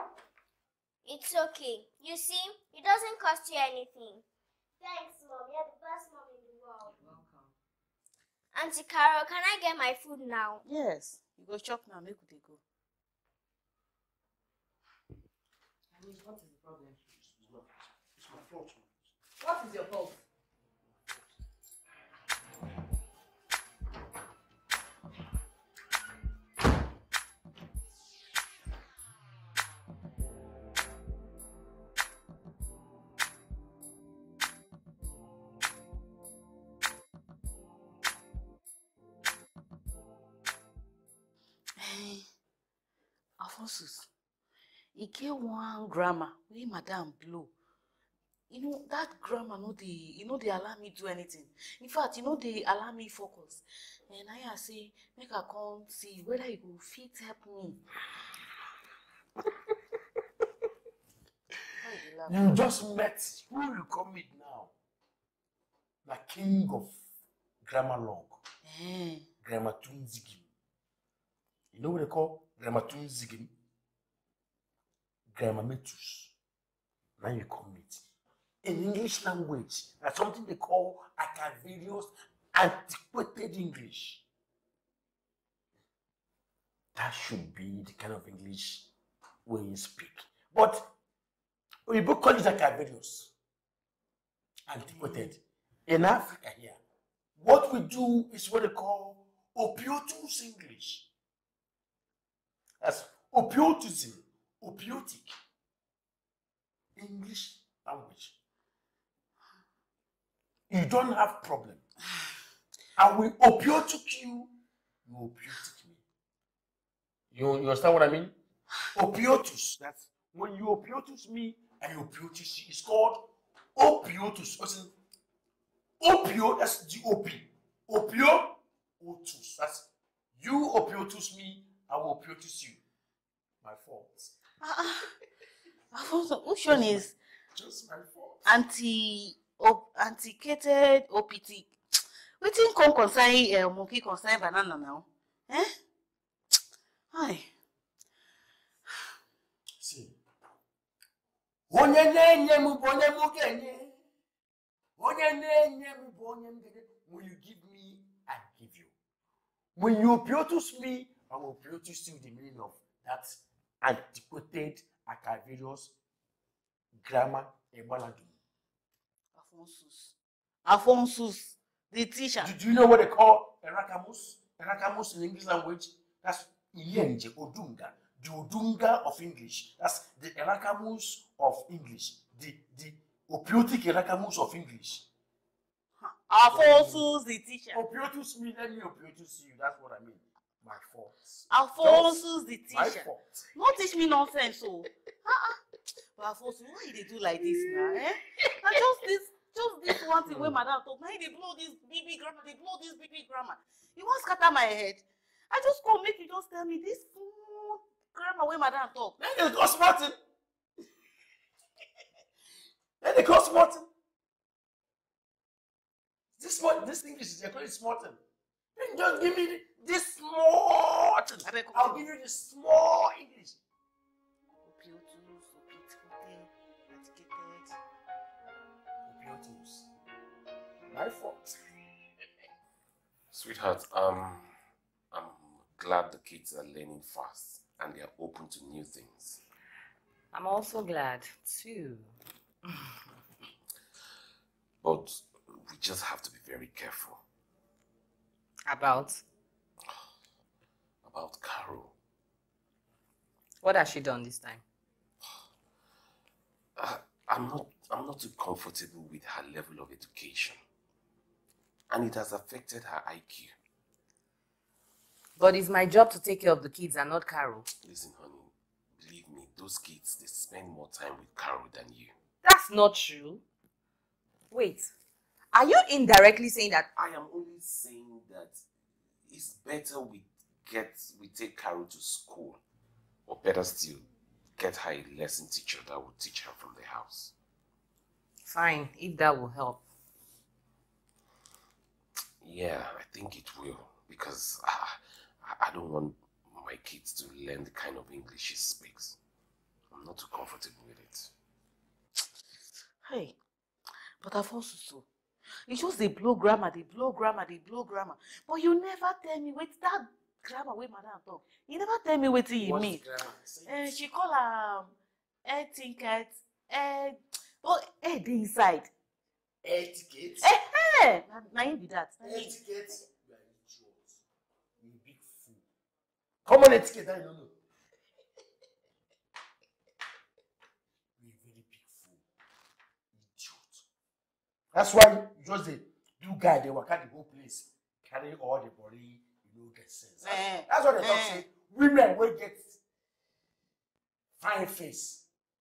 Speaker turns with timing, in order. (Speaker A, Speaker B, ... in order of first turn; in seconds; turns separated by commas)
Speaker A: 1.1-4.2, Speaker A: 4.8-6.9, Speaker B: 6.8-7.5, Speaker C: 10.7-12.6, Speaker B: 15.9-17.2, Speaker D: 18.2-18.9, Speaker B: 19.4-20.2, Speaker C: 41.8-42.3, Speaker C: 43.4-44.1, Speaker C: 45.0-47.5, Speaker C: 48.5-57.8, Speaker C: 61.8-62.6, Speaker D: 62.3-64.7, Speaker D: 66.0-67.0, Speaker D: 67.6-68.4, Speaker C: 68.6-69.3, Speaker D: 69.4-70.4, Speaker D: 71.7-73.5, Speaker D: 75.3-76.3, Speaker D: 77.2-78.0, Speaker D: 78.6-84.2, Speaker D: 87.0-88.9, Speaker D: 89.5-90.9, Speaker D: 91.9-93.3, Speaker D: 94.7-96.8, Speaker D: 97.4-101.1, Speaker D: 102.8-105.3, Speaker D: 107.0-108.3, Speaker D: 110.7-111.8, Speaker D: 113.0-116.0, Speaker D: 117.3-118.4, Speaker D: 118.9-124.9, Speaker D: 126.0-132.8, Speaker D: 133.6-134.3, Speaker C: 134.6-135.1, Speaker C: 135.9-137.2, Speaker D: 136.7-138.5, Speaker C: 138.4-141.7, Speaker C: 142.4-145.7, Speaker C: 147.1-147.5, Speaker D: 149.8-150.2, Speaker D: 151.7-154.0, Speaker D: 155.0-158.9, Speaker D: 159.8-165.9, Speaker D: 167.0-168.3, Speaker C: 169.3-172.5, Speaker D: 172.4-185.1, Speaker C: 186.0-187.8, Speaker D: 186.5-187.1, Speaker D: 187.7-192.2, Speaker C: 191.5-195.6, Speaker D: 192.7-193.5, Speaker C: 196.2-209.2, Speaker D: 209.2-210.2, Speaker D: 213.0-213.9, Speaker D: 216.4-218.2, Speaker D: 218.8-223.6, Speaker C: 221.4-222.1, Speaker C: 224.6-227.8, Speaker D: 229.1-229.9, Speaker D: 230.9-231.6, Speaker E: 233.3-234.5, Speaker E: 235.1-239.4, Speaker B: 240.3-242.1, Speaker E: 244.8-247.2, Speaker B: 248.7-249.2, Speaker E: 251.0-251.9, Speaker B: 253.6-254.6, Speaker E: 256.8-260.6, Speaker E: 261.9-263.5, Speaker B: 265.4-267.7, Speaker E: 267.8-272.1, Speaker B: 272.4-273.4, Speaker B: 274.5-274.9, Speaker B: 275.5-276.9, Speaker E: 277.0-278.6, Speaker E: 279.3-282.6, Speaker E: 283.3-284.1, Speaker E: 284.6-287.3, Speaker B: 288.4-289.8, Speaker E: 292.4-299.2, Speaker E: 299.9-301.3, Speaker C: 303.1-303.4, Speaker C: 304.2-305.1, Speaker C: 305.7-313.0, Speaker D: 312.6-314.0, Speaker C: 313.7-314.9, Speaker C: 315.4-318.9, Speaker D: 319.6-320.5, Speaker C: 320.4-322.6, Speaker D: 322.2-324.2, Speaker D: 324.8-325.6, Speaker D: 326.4-327.6, Speaker D: 331.2-332.2, Speaker D: 333.1-333.8, Speaker D: 334.7-342.8, Speaker C: 340.2-341.4, Speaker D: 344.4-345.3